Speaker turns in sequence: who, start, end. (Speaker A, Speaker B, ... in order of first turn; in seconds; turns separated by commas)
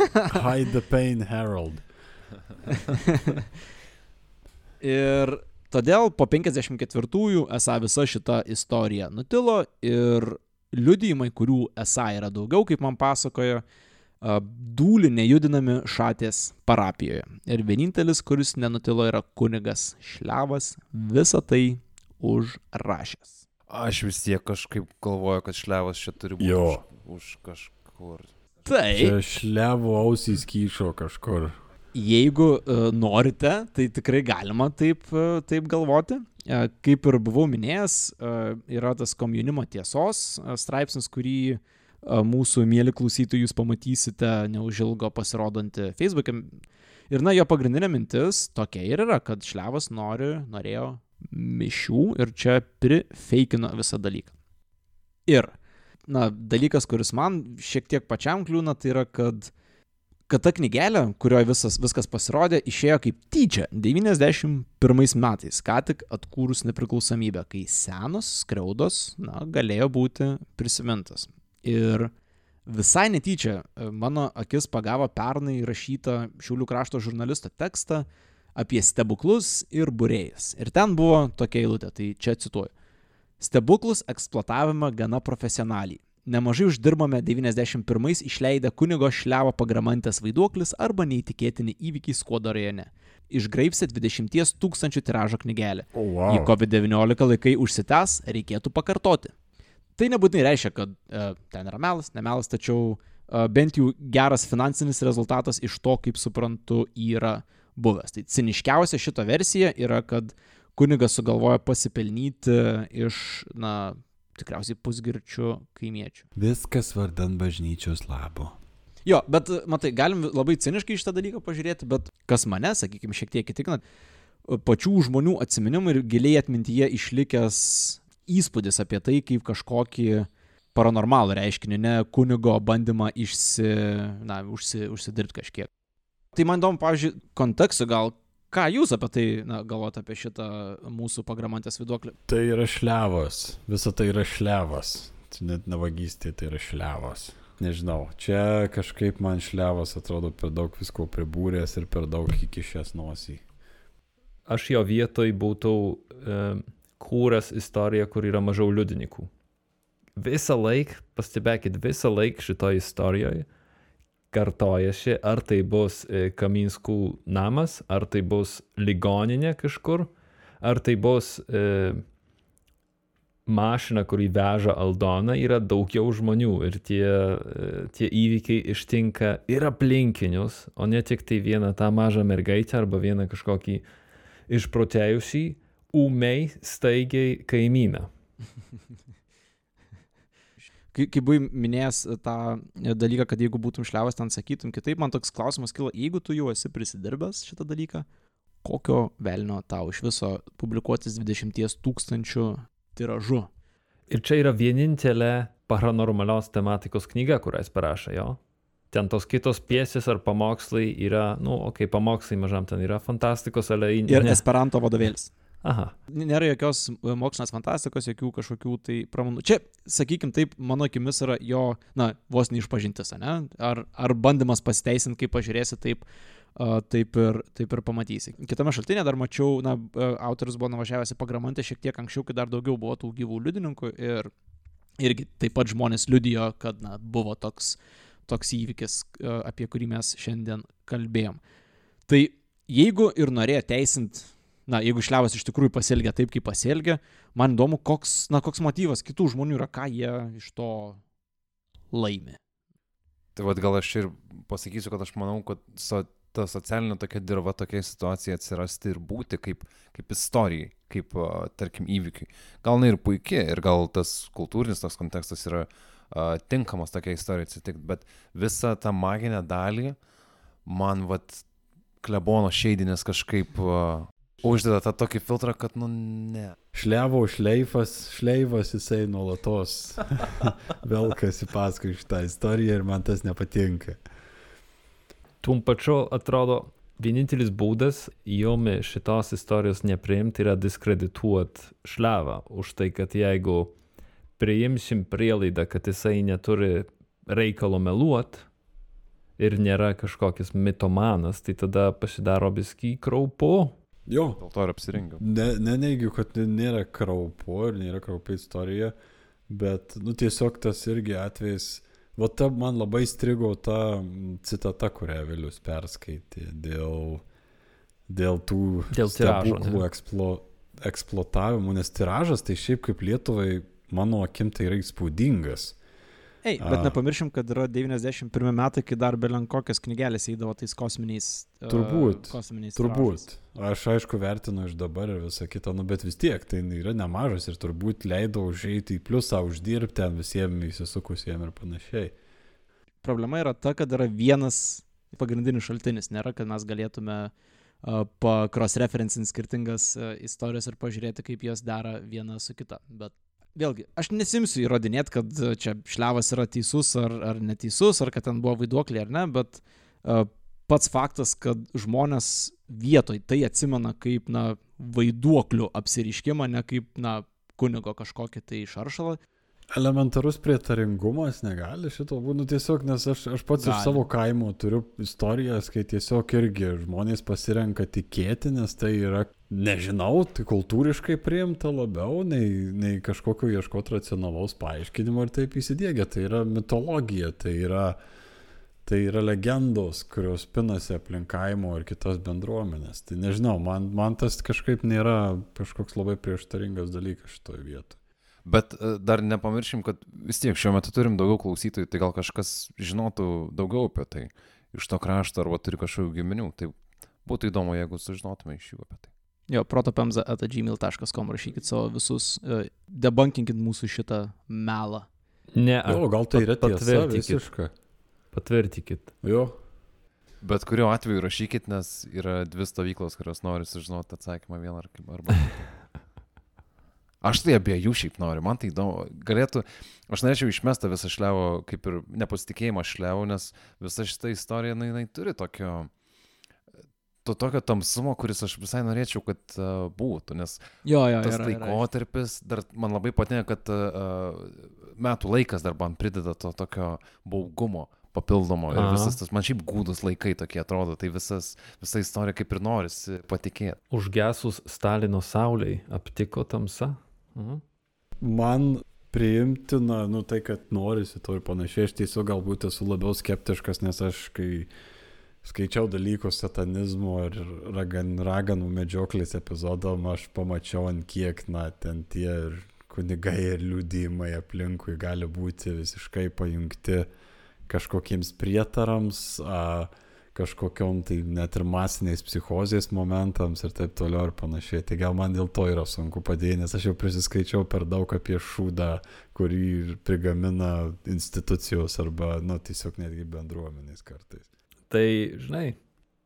Speaker A: 0.3-1.8, Speaker B: 2.8-3.4, Speaker B: 4.8-13.6, Speaker B: 14.2-23.4, Speaker C: 23.7-28.3, Speaker A: 26.4-26.8, Speaker B: 28.6-29.1, Speaker A: 28.9-31.5, Speaker B: 31.9-46.5, Speaker B: 47.1-54.3, Speaker B: 55.3-55.5, Speaker B: 56.1-59.5, Speaker B: 60.3-72.1, Speaker B: 72.7-82.7, Speaker B: 83.4-99.3, Speaker A: 95.9-96.5, Speaker B: 100.0-116.2, Speaker A: 116.3-118.5, Speaker B: 119.0-123.8, Speaker B: 124.5-135.7, Speaker B: 136.3-142.1, Speaker A: 142.3-153.4, Speaker D: 154.5-159.3, Speaker D: 160.2-163.4, Speaker D: 164.3-170.1, Speaker D: 170.6-172.0, Speaker D: 173.5-183.8, Speaker D: 184.5-188.1, Speaker B: 190.9-198.1, Speaker B: 198.6-203.5, Speaker D: 204.1-208.4, Speaker D: 208.9-214.4, Speaker B: 214.1-215.3, Speaker D: 215.6-215.9, Speaker B: 216.1-226.0, Speaker B: 226.6-234.3, Speaker B: 235.0-241.4, Speaker B: 242.1-251.0, Speaker B: 251.9-252.4, Speaker C: 253.3-270.0, Speaker C: 270.6-271.4, Speaker C: 272.0-276.6, Speaker A: 276.7-284.0, Speaker D: 285.4-293.7, Speaker D: 294.4-298.5, Speaker D: 299.4-303.8, Speaker A: 304.1-304.4, Speaker C: 304.4-305.2, Speaker A: 305.2-308.9, Speaker A: 309.5-317.2, Speaker A: 318.1-325.8, Speaker D: 318.9-319.8, Speaker B: 326.4-333.2, Speaker A: 326.6-326.9, Speaker A: 331.7-342.1, Speaker B: 343.0-347.3, Speaker B: 347.8-369.2, Speaker A: 369.7-388.0, Speaker B: 373.6-374.1, Speaker A: 388.8-397.9, Speaker C: 398.4-409.1, Speaker B: 409.5-415.1, Speaker D: 415.5-417.4, Speaker A: 415.8-417.7, Speaker D: 418.3-419.1, Speaker A: 419.2-419.5, Speaker C: 420.4-425.8, Speaker C: 427.2-435.9, Speaker C: 437.2-453.8, Speaker B: 440.8-441.8, Speaker D: 448.7-449.2, Speaker D: 453.9-457.6, Speaker A: 458.2-464.7, Speaker A: 465.4-477.1, Speaker A: 477.7-494.5, Speaker D: 494.9-495.8